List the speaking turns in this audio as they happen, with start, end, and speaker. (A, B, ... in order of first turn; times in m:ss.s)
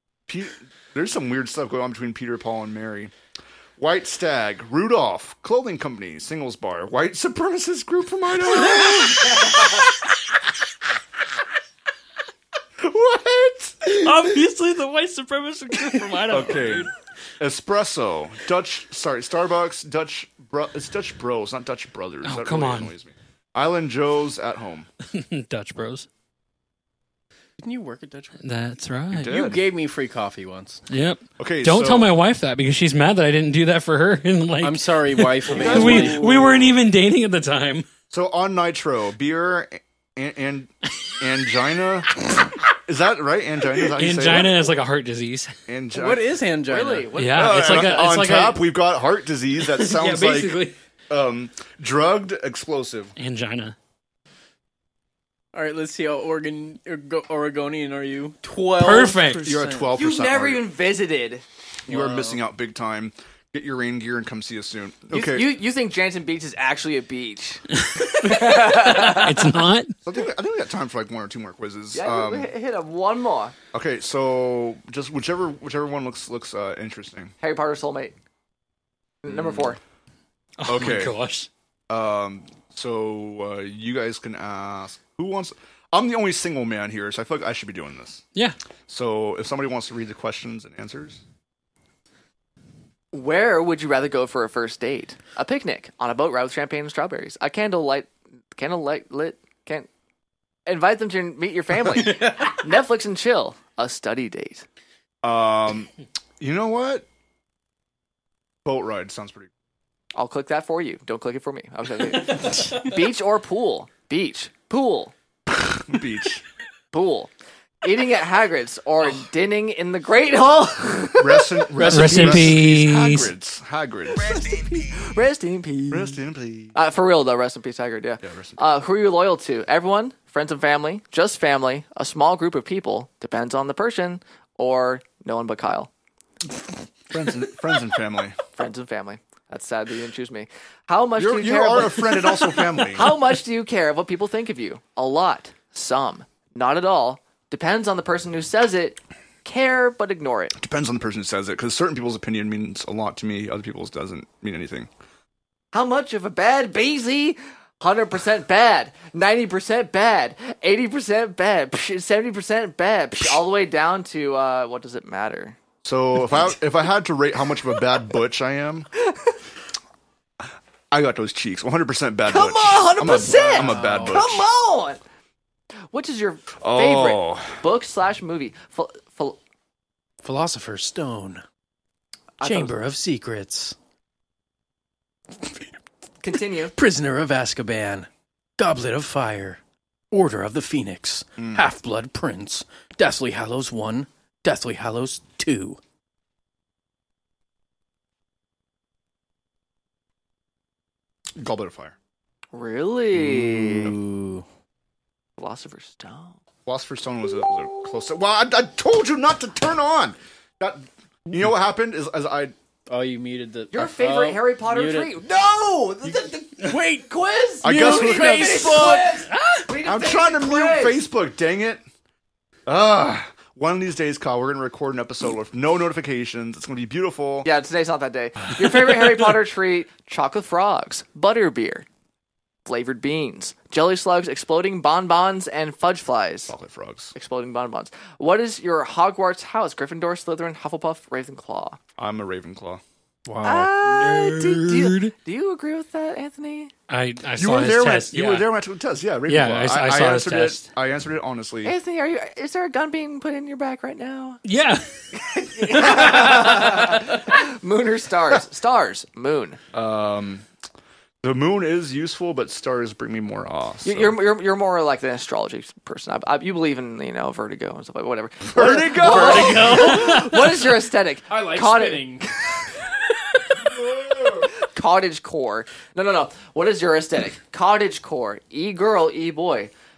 0:00.3-0:03.1 A
0:03.8-0:09.8 A
0:12.8-0:13.9 A
0:13.8-0:16.9 B
0:16.3-0:24.9 A
0:22.2-0:22.9 B
0:25.1-0:26.1 B
0:27.6-0:28.4 C
0:28.4-0:29.4 B
0:29.1-0:29.6 A
0:29.3-0:30.8 C
0:30.9-0:37.9 B
0:31.4-0:32.1 A
0:34.6-0:36.5 C
0:35.5-0:36.7 A
0:38.1-0:44.7 A
0:43.8-0:45.6 B
0:45.7-0:46.4 A
0:45.9-0:47.1 C
0:46.7-0:48.1 D
0:47.1-0:48.7 B
0:47.3-0:53.1 A
0:49.6-0:50.8 B
0:53.2-0:53.8 B
0:55.5-0:59.9 C
0:58.8-0:59.6 B
0:59.4-1:00.7 A
1:00.0-1:01.4 D
1:01.9-1:02.4 C
1:01.9-1:05.5 A
1:05.1-1:09.5 D
1:08.3-1:09.9 B
1:10.0-1:12.5 A
1:11.9-1:13.6 D
1:13.7-1:17.3 A
1:17.4-1:18.2 D
1:19.2-1:19.8 D
1:20.6-1:21.5 B
1:20.7-1:21.2 A
1:21.9-1:28.2 A
1:28.9-1:31.2 A
1:33.1-1:39.9 D
1:40.7-1:44.6 D
1:42.1-1:42.4 C
1:45.2-1:47.1 A
1:48.6-1:49.5 A
1:50.2-1:55.1 D
1:55.5-1:56.4 A
1:56.9-1:57.3 D
1:57.8-2:01.6 D
2:01.2-2:04.5 A
2:01.8-2:02.5 C
2:01.8-2:03.3 B
2:04.2-2:06.2 D
2:05.9-2:06.8 A
2:06.7-2:15.9 D
2:08.2-2:08.6 A
2:17.1-2:18.4 A
2:18.6-2:30.6 D
2:21.2-2:23.2 A
2:30.6-2:34.9 A
2:35.7-2:45.6 D
2:45.8-2:48.9 A
2:50.9-2:54.4 A
2:52.3-2:55.0 D
2:53.3-2:54.2 C
2:55.9-2:59.4 D
2:56.6-2:57.6 A
3:00.2-3:01.4 C
3:02.4-3:02.8 D
3:02.4-3:03.8 C
3:06.2-3:06.8 D
3:06.8-3:09.6 C
3:10.1-3:15.8 C
3:11.4-3:11.7 A
3:21.4-3:22.0 A
3:22.5-3:24.0 D
3:23.2-3:24.4 C
3:25.4-3:26.4 D
3:26.7-3:32.5 A
3:32.9-3:35.1 C
3:33.7-3:41.0 D
3:36.6-3:37.1 C
3:37.6-3:39.3 C
3:37.6-3:39.1 A
3:39.8-3:41.8 A
3:42.7-3:47.5 A
3:47.4-3:51.9 D
3:52.7-3:56.5 D
3:56.5-3:57.2 A
3:57.2-4:01.8 D
4:02.0-4:02.8 A
4:03.3-4:03.7 C
4:03.4-4:06.7 D
4:03.8-4:05.1 B
4:06.9-4:08.5 B
4:07.4-4:11.8 A
4:09.3-4:10.7 B
4:11.6-4:14.4 D
4:14.4-4:14.8 B
4:15.2-4:19.6 D
4:15.8-4:16.5 B
4:19.7-4:20.5 A
4:21.2-4:24.2 A
4:23.8-4:32.2 D
4:28.4-4:30.2 A
4:28.6-4:30.7 C
4:31.3-4:32.3 C
4:33.7-4:34.5 A
4:34.5-4:39.7 D